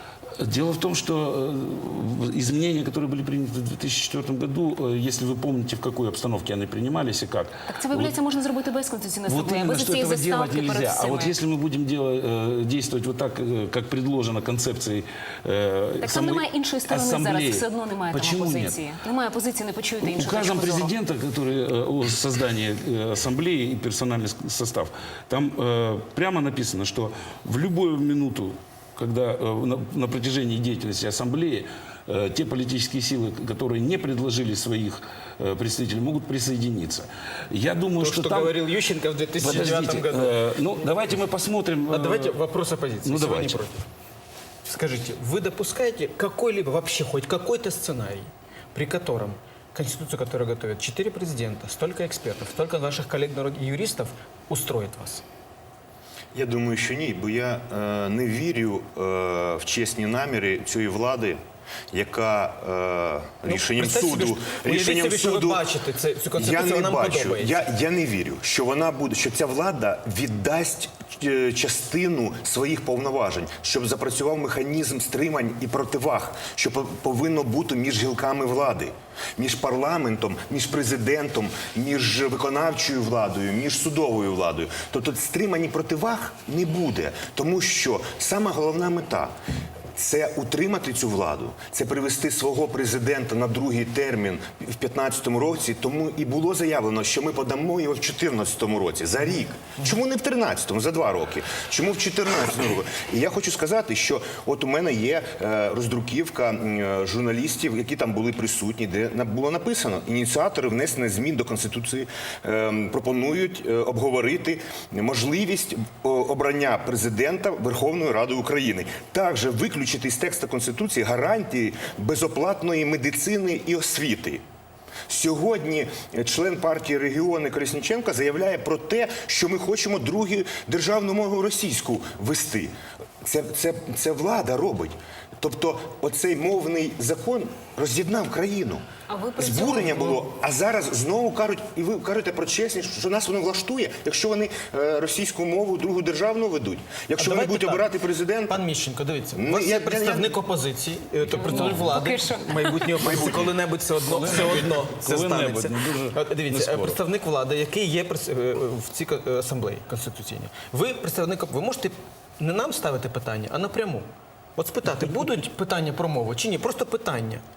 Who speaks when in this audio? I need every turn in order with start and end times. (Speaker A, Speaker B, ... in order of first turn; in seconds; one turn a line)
Speaker A: 0.4-8.1
Speaker B: 7.7-11.3
Speaker A: 9.3-18.8
Speaker B: 16.0-20.9
Speaker A: 20.0-38.7
Speaker C: 38.0-40.4
Speaker A: 39.4-42.4
Speaker C: 41.9-43.9
Speaker A: 43.0-43.6
Speaker C: 44.6-55.2
Speaker D: 56.3-61.4
Speaker D: 61.9-65.7
Speaker C: 63.5-67.6
Speaker D: 66.3-89.3
Speaker D: 90.0-124.4
Speaker D: 125.1-138.8
Speaker B: 139.1-140.3
Speaker D: 139.4-148.6
Speaker C: 147.2-147.9
Speaker C: 148.5-167.4
Speaker D: 149.3-150.4
Speaker B: 151.4-153.2
Speaker A: 151.4-151.9
Speaker A: 154.0-157.0